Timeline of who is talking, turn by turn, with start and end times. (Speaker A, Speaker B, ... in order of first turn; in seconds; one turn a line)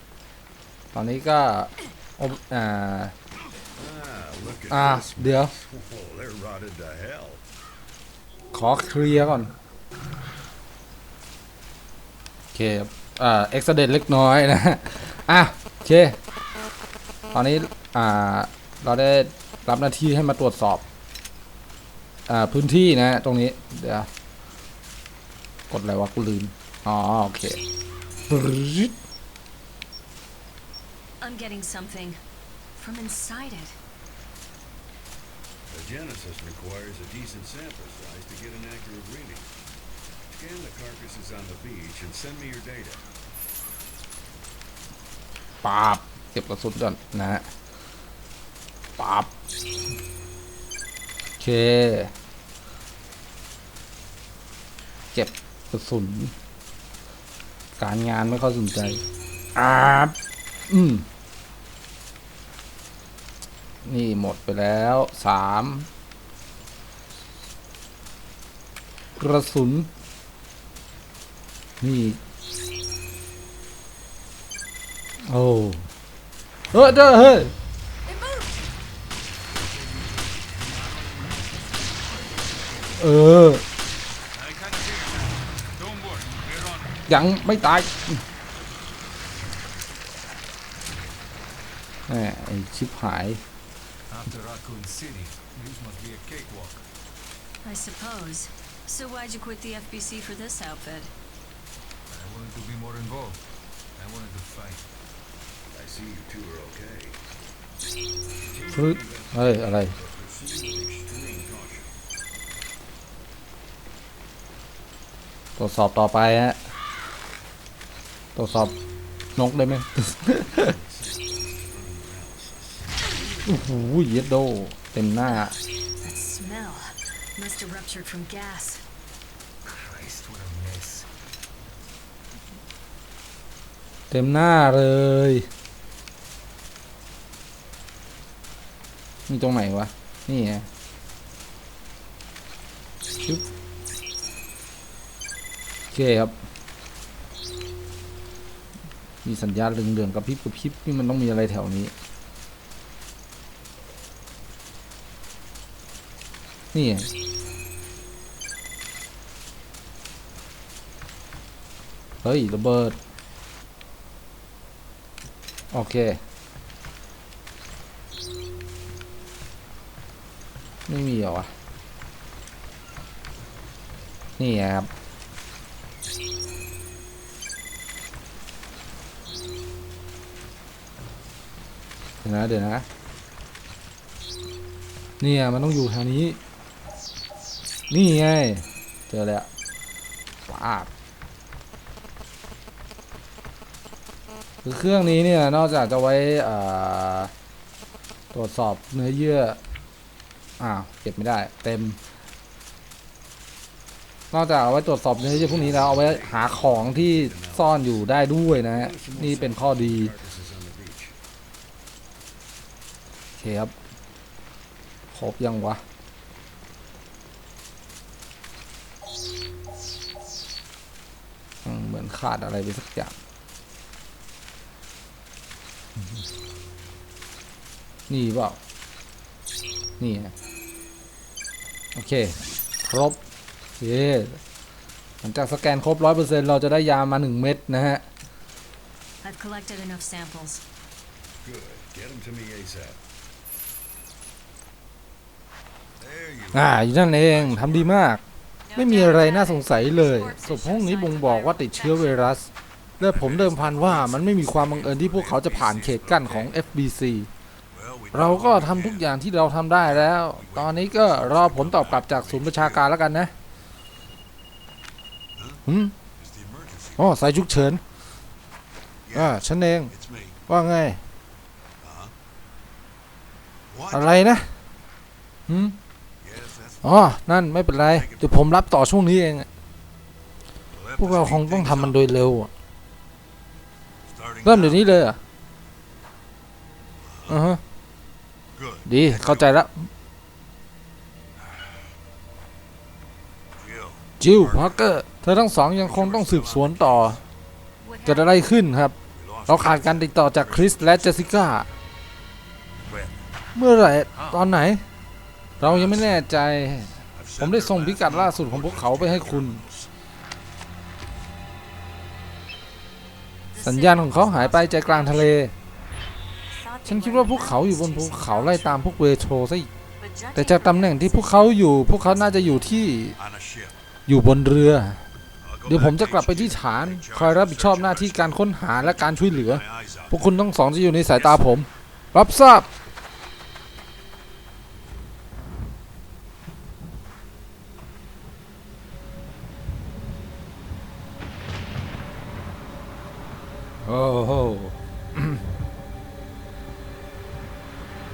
Speaker A: 0.9-3.1
Speaker B: 3.7-7.4
Speaker A: 4.7-5.5
Speaker A: 8.5-9.5
Speaker A: 12.5-16.2
Speaker A: 17.3-20.8
Speaker A: 22.3-24.1
Speaker A: 25.7-27.6
Speaker A: 28.3-28.9
Speaker C: 31.2-32.2
Speaker C: 32.8-33.8
Speaker B: 35.7-39.5
Speaker B: 40.3-43.0
Speaker A: 45.6-47.5
Speaker A: 49.0-49.3
Speaker A: 51.4-52.1
Speaker A: 55.1-56.3
Speaker A: 57.8-59.0
Speaker A: 59.5-60.2
Speaker A: 60.7-61.1
Speaker A: 63.9-65.9
Speaker A: 69.2-69.9
Speaker A: 71.8-72.2
Speaker A: 75.3-75.9
Speaker A: 76.7-77.5
Speaker C: 78.1-78.5
Speaker D: 79.9-83.0
Speaker A: 83.0-83.6
Speaker D: 84.3-87.0
Speaker A: 87.1-88.2
Speaker A: 92.1-93.4
Speaker D: 94.1-96.9
Speaker C: 97.6-101.1
Speaker D: 102.1-103.4
Speaker D: 104.0-104.9
Speaker B: 105.7-107.2
Speaker B: 108.3-111.9
Speaker A: 108.7-110.0
Speaker A: 115.6-116.6
Speaker A: 118.4-118.8
Speaker A: 119.4-120.7
Speaker B: 120.3-123.7
Speaker A: 123.5-125.5
Speaker C: 126.0-128.8
Speaker D: 129.7-131.1
Speaker A: 134.1-135.5
Speaker A: 139.3-140.7
Speaker A: 143.2-143.4
Speaker A: 145.9-146.3
Speaker A: 149.2-151.9
Speaker A: 156.7-157.1
Speaker A: 162.2-163.0
Speaker A: 165.7-166.2
Speaker A: 170.9-171.5
Speaker A: 174.4-174.9
Speaker A: 182.2-182.9
Speaker A: 185.2-186.4
Speaker A: 187.9-189.5
Speaker A: 190.5-190.9
Speaker A: 194.6-197.3
Speaker A: 198.3-199.6
Speaker A: 200.6-202.0
Speaker A: 204.3-210.1
Speaker B: 205.2-208.1
Speaker B: 208.7-211.2
Speaker A: 213.4-213.7
Speaker A: 215.1-215.8
Speaker A: 221.7-223.1
Speaker A: 228.1-228.6
Speaker A: 230.0-230.3
Speaker A: 231.9-233.2
Speaker A: 233.8-234.4
Speaker A: 235.2-238.1
Speaker C: 239.2-240.6
Speaker B: 241.4-243.0
Speaker B: 246.0-248.1
Speaker A: 246.5-248.2
Speaker C: 248.7-252.4
Speaker A: 248.8-252.5
Speaker A: 253.0-257.3
Speaker D: 253.0-256.5
Speaker B: 253.1-256.4
Speaker B: 257.7-259.1
Speaker A: 258.1-263.3
Speaker B: 259.8-262.9
Speaker B: 265.4-265.6
Speaker A: 265.7-265.9
Speaker B: 266.2-267.5
Speaker A: 267.0-267.8
Speaker B: 269.1-270.4
Speaker A: 269.1-269.9
Speaker A: 270.5-271.0
Speaker B: 271.8-272.1
Speaker B: 273.7-274.4
Speaker A: 273.9-274.5
Speaker A: 275.5-275.8
Speaker B: 276.2-277.2
Speaker A: 276.8-279.5
Speaker B: 277.9-278.5
Speaker B: 280.7-282.1
Speaker A: 281.0-282.5
Speaker B: 284.1-284.9
Speaker A: 284.4-285.2
Speaker B: 287.0-287.5
Speaker A: 287.3-287.6
Speaker B: 288.6-289.5
Speaker A: 288.9-289.9
Speaker B: 291.4-291.9
Speaker B: 293.5-294.9
Speaker A: 294.2-297.2
Speaker B: 295.7-297.3
Speaker C: 297.8-298.5
Speaker A: 298.1-299.0
Speaker B: 299.1-301.5
Speaker A: 299.5-301.7
Speaker A: 303.6-304.8
Speaker D: 304.1-304.5
Speaker A: 305.6-309.6
Speaker B: 305.6-306.2
Speaker D: 305.7-306.0
Speaker B: 307.1-309.9
Speaker C: 313.5-315.4
Speaker A: 313.6-315.5
Speaker C: 316.5-319.0
Speaker A: 316.9-319.7
Speaker C: 320.0-321.9
Speaker A: 320.4-323.2
Speaker B: 323.2-323.8
Speaker A: 324.1-325.0
Speaker B: 325.4-330.3
Speaker A: 325.6-332.7
Speaker B: 331.2-331.6
Speaker A: 343.9-345.4